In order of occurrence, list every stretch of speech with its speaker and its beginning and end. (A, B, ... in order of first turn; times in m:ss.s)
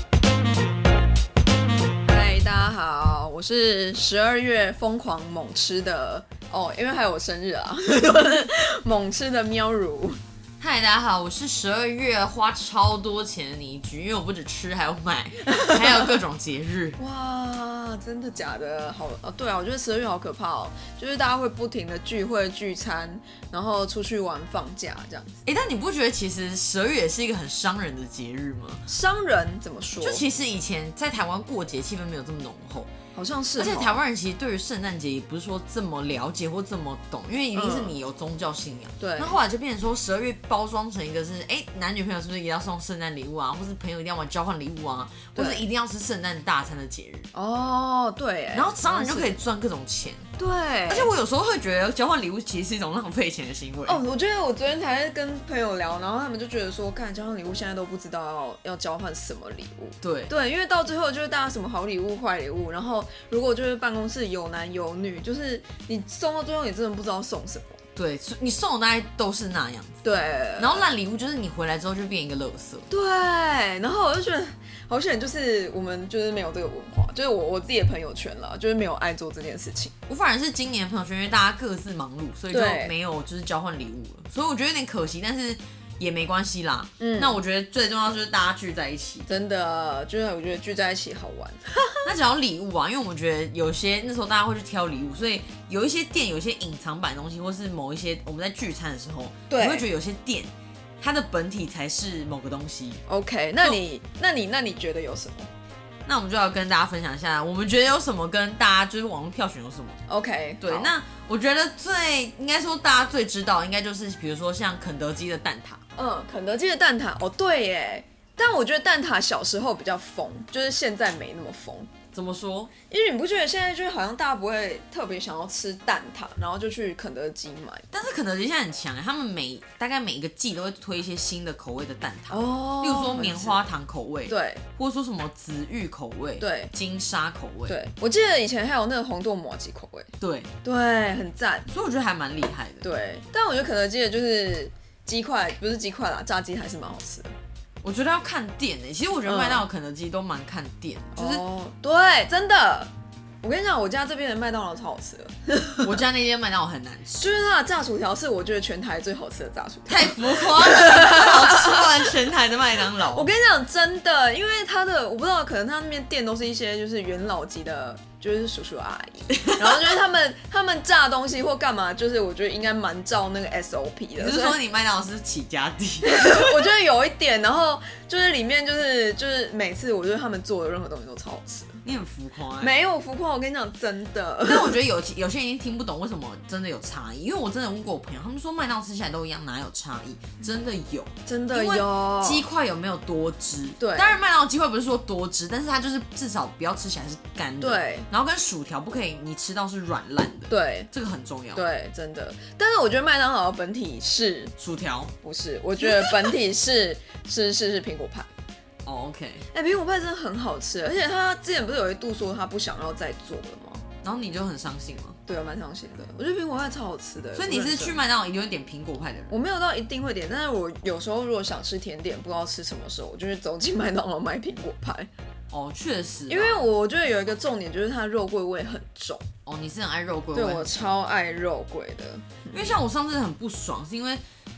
0:02.0-0:10.2 A
0:10.6-0:17.0 B
0:15.5-0:16.1 A
0:17.0-0:25.4 A
0:25.4-0:28.8 B
0:28.9-0:30.2 A
0:30.0-0:32.9 B
0:33.1-0:34.0 A
0:33.6-0:47.3 B
0:37.5-0:38.0 A
0:39.0-0:39.4 A
0:45.3-0:45.6 A
0:47.3-0:49.4 A
0:48.5-0:50.2 B
0:50.4-0:51.1 A
0:50.9-0:54.0 B
0:53.8-1:07.8 A
1:00.0-1:00.3 B
1:08.0-1:10.0 B
1:10.0-1:10.9 A
1:10.6-1:12.9 B
1:12.9-1:19.9 A
1:20.1-1:29.3 B
1:22.5-1:22.9 A
1:27.0-1:27.4 A
1:29.3-1:32.0 A
1:32.0-1:43.0 B
1:39.5-1:39.8 A
1:43.1-1:45.5 A
1:46.0-1:50.0 B
1:50.1-1:50.9 A
1:50.6-1:55.8 B
1:56.0-2:01.9 A
2:02.1-2:02.7 B
2:02.9-2:07.9 A
2:07.9-2:17.8 B
2:12.3-2:13.6 A
2:14.3-2:14.6 A
2:16.4-2:16.7 A
2:17.7-2:20.1 A
2:20.2-2:20.5 B
2:20.6-2:21.7 A
2:21.7-2:22.8 B
2:22.8-2:27.3 A
2:27.8-2:31.4 B
2:29.2-2:29.6 A
2:31.1-2:32.9 A
2:33.4-2:35.9 A
2:35.8-2:37.3 B
2:37.2-2:42.2 A
2:39.9-2:43.3 B
2:43.1-2:54.6 A
2:49.4-2:50.0 B
2:54.2-2:56.5 B
2:56.0-3:01.8 A
3:01.8-3:02.7 B
3:02.6-3:04.8 A
3:04.4-3:21.7 B
3:11.2-3:12.4 A
3:13.8-3:14.2 A
3:17.6-3:18.1 A
3:20.5-3:20.9 A
3:21.5-3:24.5 A
3:24.6-3:25.1 B
3:25.2-3:28.3 A
3:25.8-3:26.3 B
3:28.8-3:29.4 B
3:29.5-3:33.8 A
3:34.0-3:35.2 B
3:35.2-3:38.0 A
3:37.4-3:39.3 B
3:39.3-3:45.1 A
3:45.5-3:46.6 B
3:46.3-3:49.2 A
3:49.4-3:50.9 B
3:50.3-3:52.8 A
3:52.5-3:54.2 B